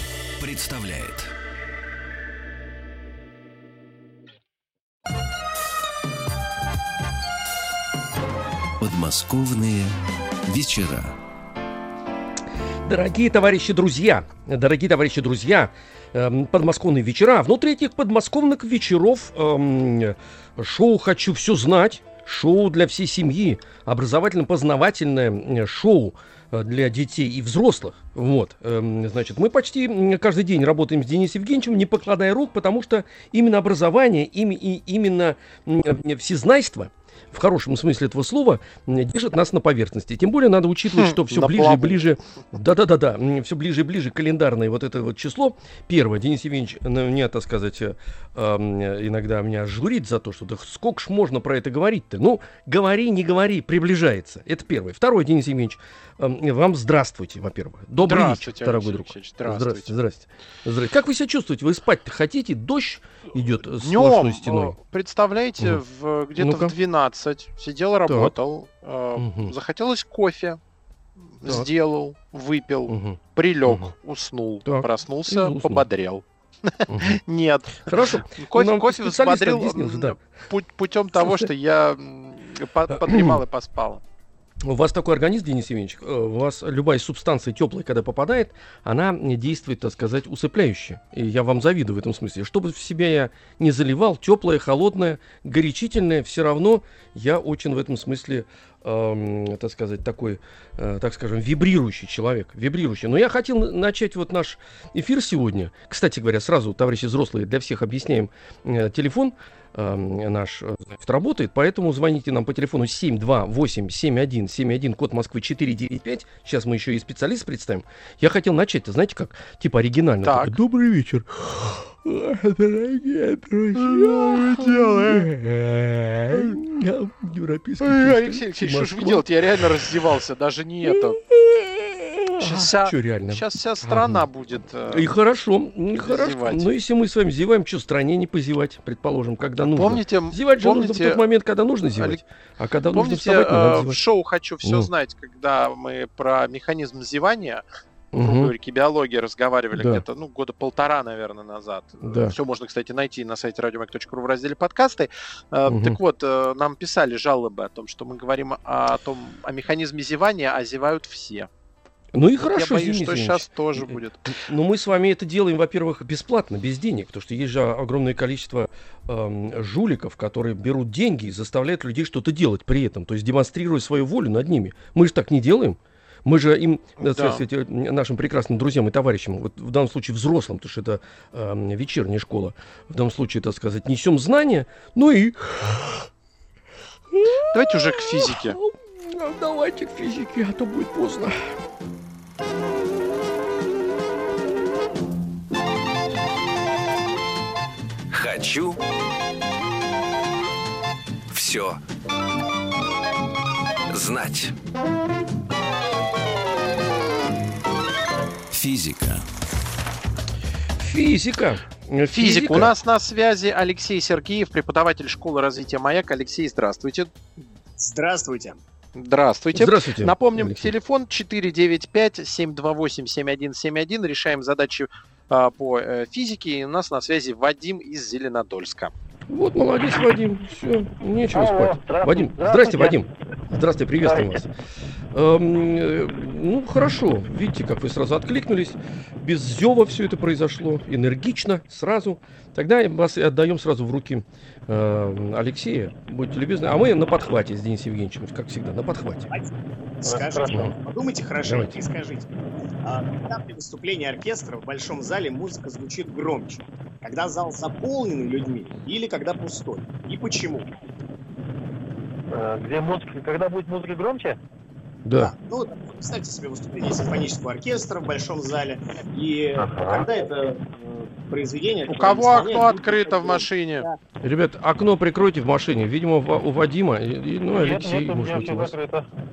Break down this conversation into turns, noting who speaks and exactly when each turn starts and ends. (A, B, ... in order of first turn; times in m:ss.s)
0:00.4-0:01.3 A
0:08.8-0:10.0 A
0:10.5-0:11.2 A
0:12.8-1:04.8 B
0:40.9-0:42.0 C
0:58.0-1:00.0 C
1:03.8-1:10.6 C
1:06.4-1:06.7 B
1:08.1-1:08.3 B
1:09.2-1:09.5 B
1:11.4-1:24.0 C
1:11.4-1:11.7 B
1:12.9-1:13.9 B
1:14.6-1:15.8 B
1:16.9-1:17.2 B
1:17.9-1:20.2 B
1:21.2-1:21.5 B
1:22.9-1:23.4 B
1:24.6-2:09.9 B
2:00.2-2:00.6 C
2:03.8-2:05.3 C
2:06.3-2:06.6 C
2:07.8-2:11.2 C
2:10.8-2:14.2 B
2:12.4-2:15.1 C
2:14.9-2:24.0 B
2:16.0-2:16.7 C
2:19.7-2:21.2 C
2:22.0-2:22.2 C
2:22.9-2:27.6 C
2:24.6-2:24.9 B
2:28.1-2:28.6 B
2:28.2-2:41.5 C
2:29.7-2:30.0 B
2:32.0-2:32.4 B
2:35.7-2:36.0 B
2:42.1-3:06.1 B
2:42.5-2:44.4 C
2:57.0-2:57.4 C
3:07.1-3:11.6 B
3:07.5-3:08.6 C
3:18.1-3:18.8 A
3:21.3-3:21.8 A
3:23.9-3:24.5 A
3:28.5-3:29.2 A
3:30.8-3:32.7 B
3:32.2-3:37.1 C
3:37.8-3:38.6 D
3:39.0-3:48.9 C
3:39.5-3:40.7 B
3:49.3-3:54.5 B
3:51.3-3:53.1 E
3:54.0-3:54.4 E
3:55.1-4:09.3 B
4:10.0-4:20.7 D
4:10.1-4:10.5 E
4:11.4-4:11.8 B
4:22.3-4:24.4 E
4:25.0-4:25.3 B
4:25.2-4:34.0 D
4:29.6-4:30.1 E
4:31.9-4:33.9 C
4:34.2-4:38.8 B
4:37.5-4:39.1 E